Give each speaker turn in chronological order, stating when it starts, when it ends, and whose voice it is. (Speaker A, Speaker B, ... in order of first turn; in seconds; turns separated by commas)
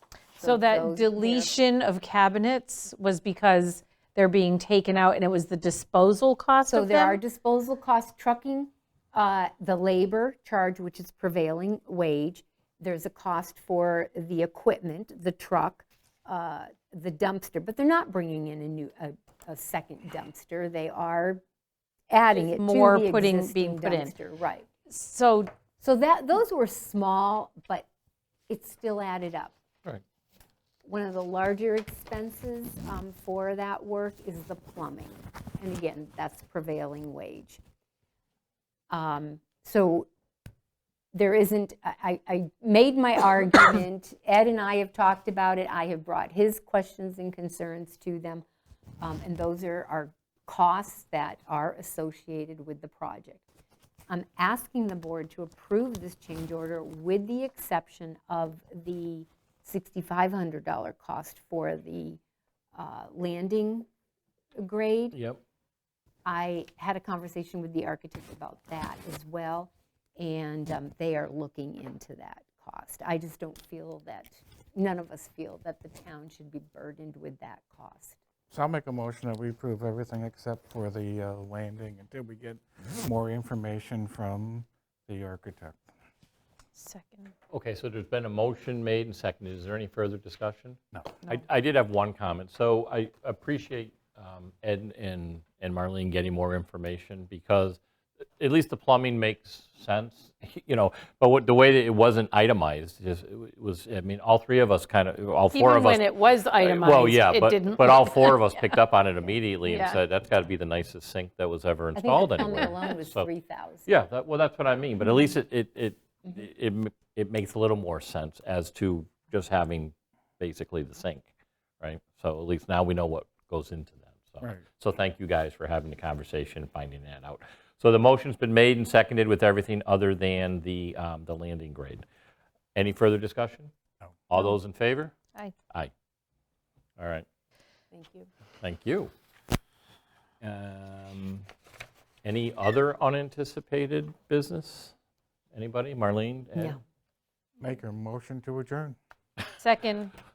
Speaker A: 0.4-7.2, Speaker B: 0.4-1.5, Speaker B: 6.7-21.4, Speaker B: 22.1-24.7, Speaker A: 22.3-24.1, Speaker A: 24.9-25.5, Speaker B: 25.8-27.9, Speaker B: 28.5-29.5, Speaker B: 30.8-37.6, Speaker B: 38.9-40.1, Speaker B: 41.1-48.4, Speaker B: 49.0-53.4, Speaker B: 54.1-62.2, Speaker B: 62.7-63.9, Speaker B: 64.6-65.2, Speaker C: 65.1-65.4, Speaker B: 66.2-78.2, Speaker D: 78.5-85.8, Speaker A: 86.7-87.3, Speaker C: 87.5-97.8, Speaker C: 98.4-113.3, Speaker A: 105.5-108.8, Speaker A: 109.6-110.0, Speaker B: 111.9-113.9, Speaker C: 113.9-121.3, Speaker C: 121.8-132.0, Speaker C: 132.7-133.7, Speaker C: 134.3-135.2, Speaker C: 137.0-137.2, Speaker A: 137.9-138.2, Speaker C: 138.6-139.1, Speaker C: 140.4-141.4, Speaker C: 142.2-144.9, Speaker C: 145.5-146.8, Speaker D: 147.6-148.9, Speaker A: 149.6-150.1